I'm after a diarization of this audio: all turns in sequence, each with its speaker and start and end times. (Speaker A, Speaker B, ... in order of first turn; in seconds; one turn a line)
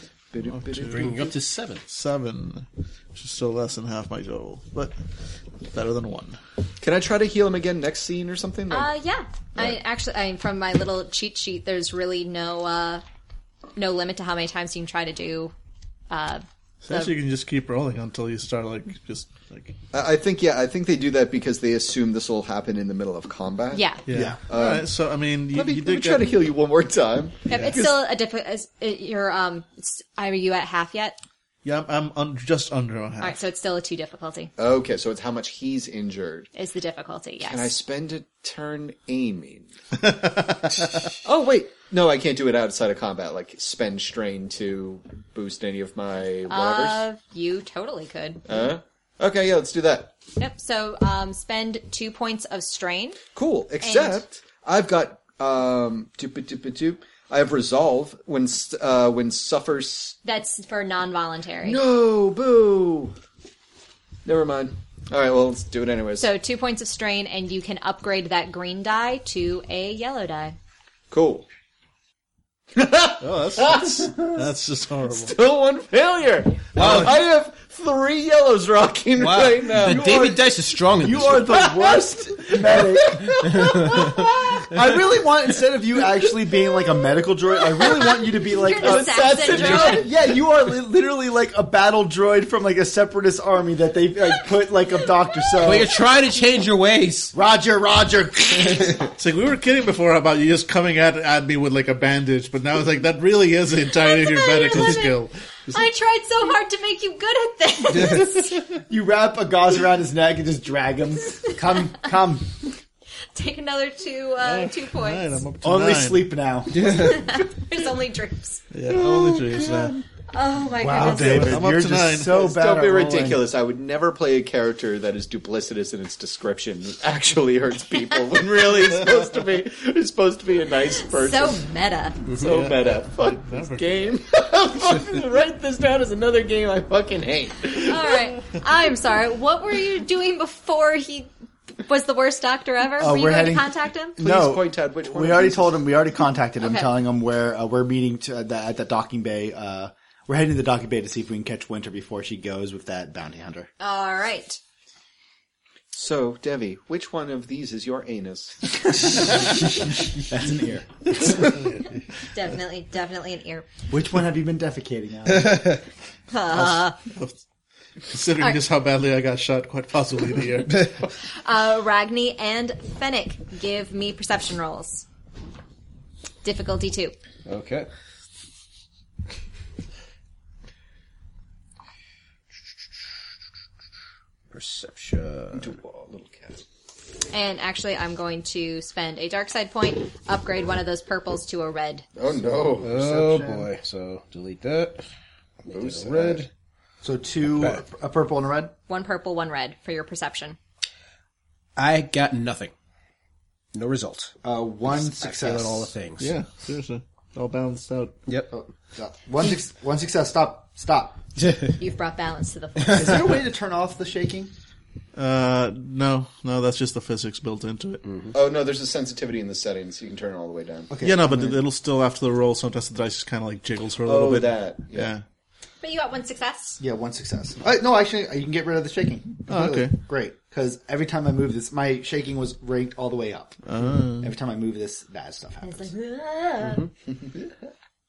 Speaker A: 0.3-1.3
Speaker B: 0.5-1.1
Speaker C: 0.9-1.8
Speaker B: 1.9-4.9
Speaker B: 5.7-6.4
Speaker A: 6.8-8.9
Speaker D: 8.7-13.0
Speaker D: 13.8-15.5
Speaker D: 16.1-17.1
Speaker B: 16.8-19.8
Speaker A: 19.9-23.9
Speaker D: 23.7-24.0
Speaker B: 24.1-26.4
Speaker E: 24.1-24.4
Speaker A: 24.5-24.9
Speaker A: 25.5-27.9
Speaker D: 27.5-31.2
Speaker B: 31.6-33.4
Speaker D: 33.2-34.5
Speaker A: 34.6-36.5
Speaker D: 36.5-37.7
Speaker A: 37.5-39.7
Speaker B: 40.0-40.8
Speaker A: 41.2-47.0
Speaker D: 46.5-48.5
Speaker A: 48.5-50.1
Speaker D: 50.4-53.2
Speaker A: 53.3-60.2
Speaker D: 53.8-54.2
Speaker D: 60.2-61.8
Speaker A: 61.6-63.1
Speaker A: 64.2-66.3
Speaker D: 66.2-70.5
Speaker A: 71.1-71.5
Speaker A: 72.7-74.5
Speaker B: 73.2-75.3
Speaker A: 75.1-80.3
Speaker B: 76.8-77.1
Speaker C: 76.8-77.2
Speaker C: 79.2-81.7
Speaker E: 79.8-80.5
Speaker E: 81.0-96.0
Speaker A: 81.5-84.5
Speaker C: 83.5-84.0
Speaker D: 87.8-90.1
Speaker A: 88.8-90.1
Speaker C: 95.6-97.3
Speaker E: 97.3-99.0
Speaker B: 99.1-105.8
Speaker D: 103.9-108.6
Speaker E: 108.7-112.6
Speaker D: 113.3-115.4
Speaker B: 114.4-116.3
Speaker E: 115.6-116.9
Speaker D: 116.8-118.6
Speaker C: 116.8-117.2
Speaker B: 118.7-120.0
Speaker D: 120.3-121.6
Speaker E: 120.8-123.5
Speaker B: 120.9-122.4
Speaker A: 122.3-131.6
Speaker D: 131.0-132.2
Speaker A: 132.3-138.2
Speaker B: 132.4-134.2
Speaker D: 137.8-144.2
Speaker E: 143.0-153.7
Speaker A: 144.2-145.8
Speaker D: 146.6-146.9
Speaker D: 153.8-154.6
Speaker A: 155.9-159.2
Speaker E: 160.1-161.3
Speaker D: 162.3-163.7
Speaker E: 163.9-165.7
Speaker C: 165.4-165.7
Speaker D: 166.3-167.0
Speaker B: 166.6-167.4
Speaker B: 168.1-170.9
Speaker D: 171.4-175.1
Speaker D: 176.4-177.2
Speaker C: 177.4-177.9
Speaker C: 184.5-185.7
Speaker A: 185.5-186.6
Speaker D: 187.3-192.1
Speaker A: 192.2-192.9
Speaker C: 192.8-195.0
Speaker E: 192.8-193.7
Speaker C: 195.7-196.5
Speaker A: 195.7-196.4
Speaker E: 197.0-198.7
Speaker D: 198.9-200.6
Speaker C: 201.8-202.7
Speaker C: 203.7-204.3
Speaker E: 204.4-205.9
Speaker C: 205.0-206.3
Speaker B: 206.2-208.2
Speaker C: 208.3-208.5
Speaker E: 208.5-211.2
Speaker D: 211.8-213.3
Speaker E: 212.9-214.5
Speaker B: 215.2-218.0
Speaker C: 218.0-218.3
Speaker A: 218.3-220.9
Speaker E: 220.9-221.6
Speaker B: 221.0-225.2
Speaker A: 224.0-225.1
Speaker D: 225.8-226.8
Speaker E: 226.8-233.6
Speaker B: 229.5-229.9
Speaker B: 233.7-234.3
Speaker E: 234.2-235.9
Speaker D: 235.6-236.9